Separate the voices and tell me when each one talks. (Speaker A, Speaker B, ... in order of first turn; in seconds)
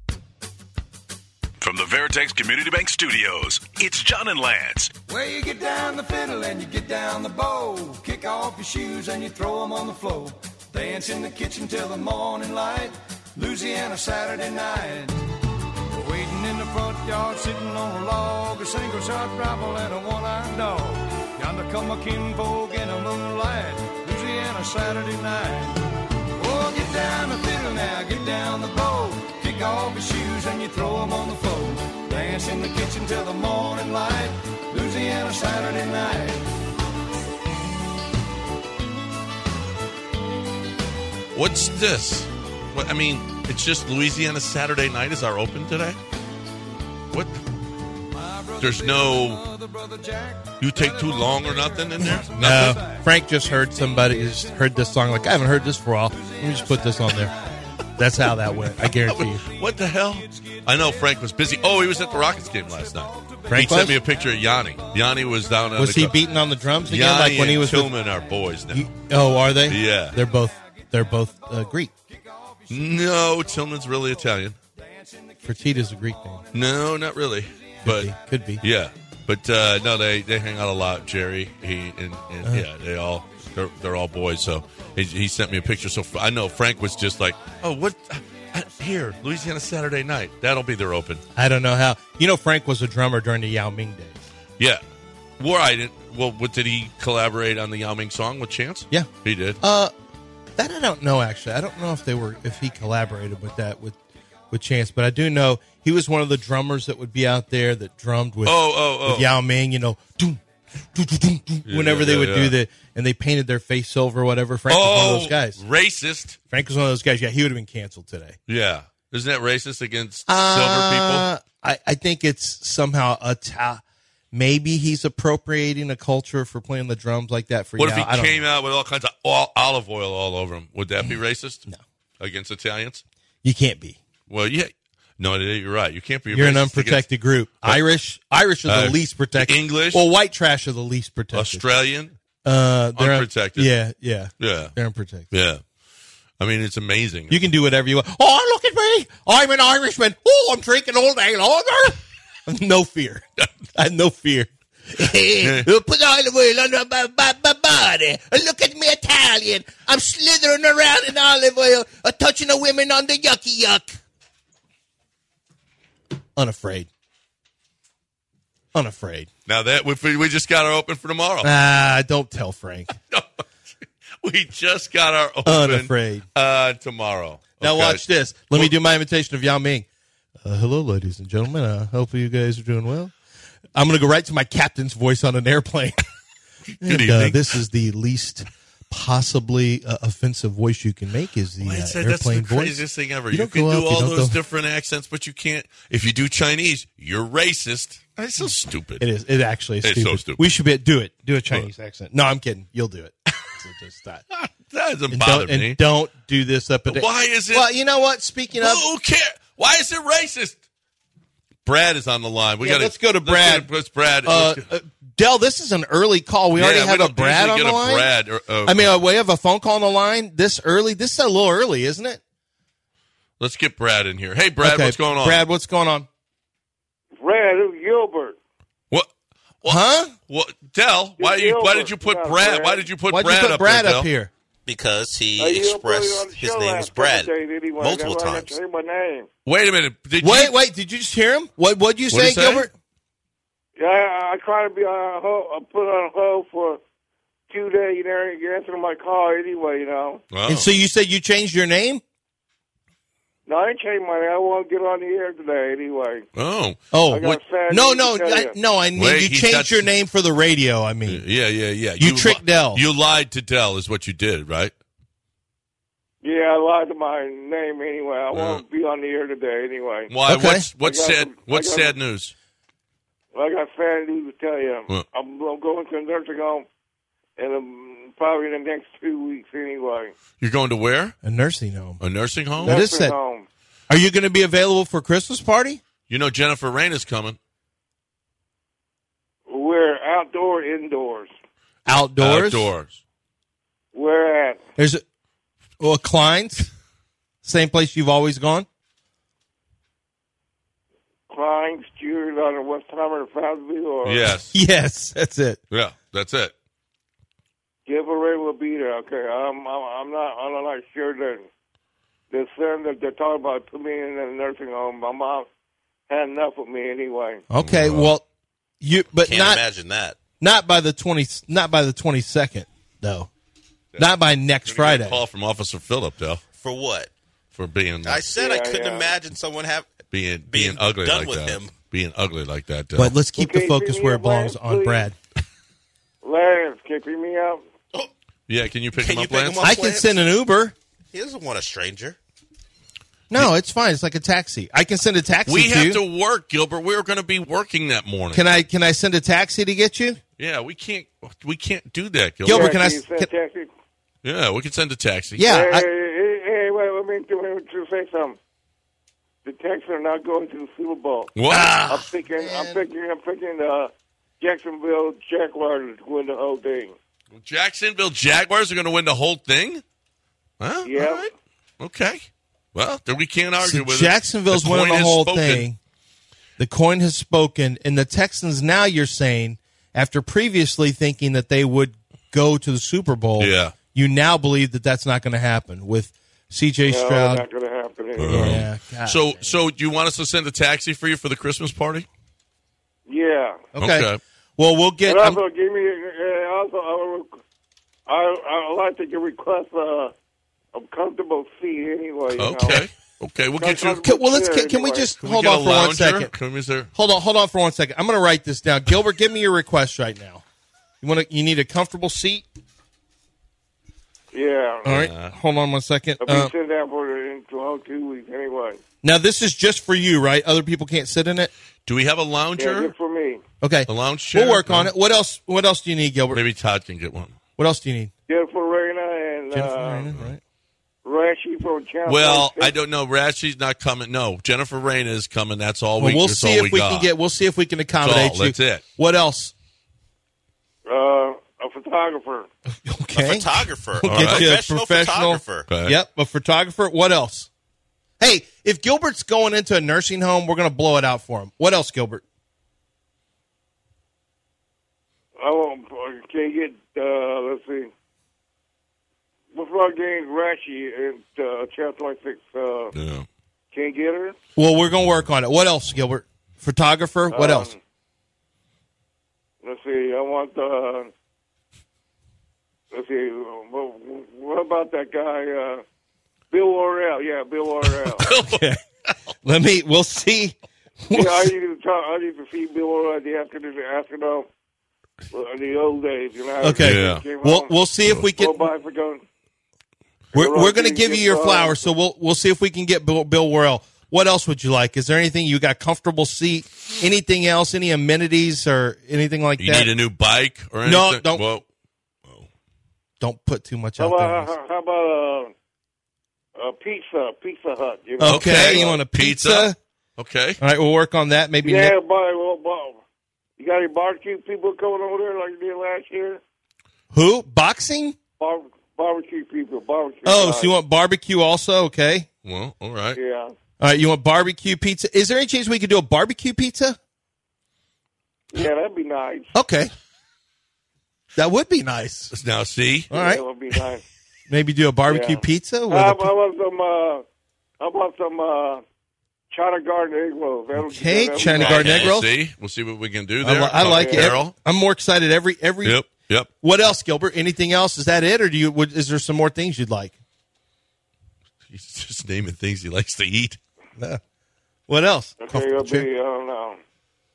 Speaker A: 1.6-4.9
Speaker B: 5.1-15.3, 15.9-25.8, 26.4-36.5, 48.1-55.5, 56.1-57.9, 58.5-58.7, 59.6-65.7, 68.1-68.5, 70.1-77.7
Speaker C: 41.4-46.0, 47.1-47.4, 48.6-49.5, 50.6-52.8, 58.8-66.1, 66.9-68.9, 69.7-70.2, 72.7-74.6, 76.5-91.2, 95.4-99.6, 108.5-109.3, 111.7-112.5, 114.7-116.4, 118.5-121.3, 127.8-131.7, 132.2-133.0, 134.3-137.1, 138.7-140.1, 141.3-142.2, 143.0-143.7, 144.4-144.8, 145.3-145.6, 146.4-147.4, 155.4-155.7, 169.5-171.5, 174.2-178.7, 186.8-187.5, 191.6-199.1, 199.8-200.4, 204.3-205.8, 206.9-207.7, 208.6-210.6, 211.7-214.7, 216.6-218.9, 223.4-225.4, 229.6-234.1, 239.4-240.5, 242.1-242.7, 250.3-250.7, 256.4-256.8, 259.0-259.9, 261.1-264.7, 268.3-268.6, 270.1-272.3, 280.4-281.2, 282.0-282.8, 286.1-287.4, 292.2-293.0, 304.0-304.5, 305.7-306.5, 317.6-318.1, 324.7-326.4, 327.5-328.3, 330.1-333.1, 338.5-339.7, 345.5-348.5, 350.4-352.8, 354.2-355.4, 361.4-361.8, 367.4-369.8, 370.6-371.3, 371.8-375.7, 383.4-383.8, 388.2-392.1, 393.8-394.2, 402.4-404.0, 405.2-406.9, 414.9-415.4, 421.9-422.9, 423.9-424.9, 426.3-427.4, 432.1-437.1, 438.0-438.8, 444.1-444.5, 445.7-446.0, 462.9-463.3, 477.9-478.7, 486.8-487.2, 499.6-501.6, 508.2-510.6, 522.5-523.2, 532.3-533.1, 541.4-544.5, 545.8-546.5, 551.7-553.6
Speaker D: 52.4-57.3, 58.0-59.4, 63.5-64.0, 65.8-68.0, 68.7-71.9, 75.5-76.4, 77.8-78.6, 91.3-94.3, 99.6-99.9, 100.6-104.0, 104.5-110.4, 110.9-115.6, 116.5-118.4, 120.3-128.4, 133.4-134.0, 136.3-141.7, 142.4-145.3, 147.3-153.2, 153.8-164.0, 166.4-166.9, 168.7-169.3, 171.4-172.9, 175.5-176.2, 177.6-179.9, 180.4-183.1, 183.8-186.0, 186.8-192.8, 193.3-194.4, 199.0-204.2, 205.1-208.8, 212.6-213.7, 214.2-218.1, 218.7-222.2, 224.6-226.1, 229.7-230.1, 233.1-234.3, 240.2-242.7, 250.5-252.0, 256.9-261.2, 262.0-262.8, 270.3-270.7, 281.2-282.0, 282.6-283.2, 283.9-285.8, 291.9-292.7, 294.8-295.0, 295.8-296.7, 297.4-298.7, 304.5-305.6, 317.5-318.2, 318.8-319.6, 320.4-323.3, 324.0-325.2, 333.0-335.1, 339.6-340.8, 343.3-346.0, 348.3-350.2, 352.4-353.3, 355.4-355.9, 361.5-362.8, 373.6-375.8, 376.6-387.4, 388.2-389.5, 393.7-395.4, 404.0-406.3, 406.9-410.4, 411.0-412.4, 414.9-416.5, 419.0-421.5, 423.6-426.4, 427.6-428.1, 429.5-430.4, 436.0-439.5, 442.7-447.5, 448.2-452.2, 464.6-467.7, 478.4-478.8, 479.4-481.5, 486.6-488.7, 490.3-499.9, 500.9-501.4, 503.2-504.5, 508.2-509.8, 510.6-512.0, 517.1-518.2, 520.2-522.3, 523.8-527.0, 529.5-529.9, 531.4-532.3, 533.1-533.4, 534.5-536.3, 540.8-542.3, 543.4-546.0, 546.6-550.1, 554.9-556.1
Speaker E: 227.2-228.4, 231.2-232.9, 235.4-239.3, 243.8-246.8, 247.5-250.2, 253.5-256.3, 257.1-258.6, 266.2-270.1, 270.8-272.0, 273.3-276.7, 277.4-280.1, 282.6-283.5, 289.5-291.3, 293.9-294.6, 301.3-304.3, 307.9-311.5, 312.3-315.5, 316.1-317.4, 328.3-329.1, 333.4-335.1, 336.2-337.6, 352.5-353.7, 355.4-358.4, 359.4-367.0, 370.9-371.3, 386.9-388.5, 393.1-393.6, 395.1-397.3, 398.1-400.1, 400.7-402.8, 403.6-405.1, 414.3-414.9, 416.2-418.8, 422.6-423.4, 428.3-430.1, 431.0-432.7, 440.9-442.5, 455.4-457.9, 459.5-462.9, 463.7-464.4, 467.3-467.8, 469.6-471.1, 472.9-475.8, 476.5-478.3, 481.1-484.5, 485.3-487.7, 488.4-489.2, 490.3-491.9, 504.0-505.5, 506.6-509.0, 511.6-513.0, 513.6-516.4, 518.4-520.7, 523.2-523.5, 528.5-529.5, 533.1-534.0, 535.1-537.2, 537.8-538.8, 539.5-541.9, 543.8-544.3, 555.4-556.8
Speaker F: 234.7-238.6, 319.2-320.2, 326.6-327.1, 328.0-329.9, 330.5-331.7, 339.0-340.2, 341.1-342.2, 443.1-445.7, 541.7-542.1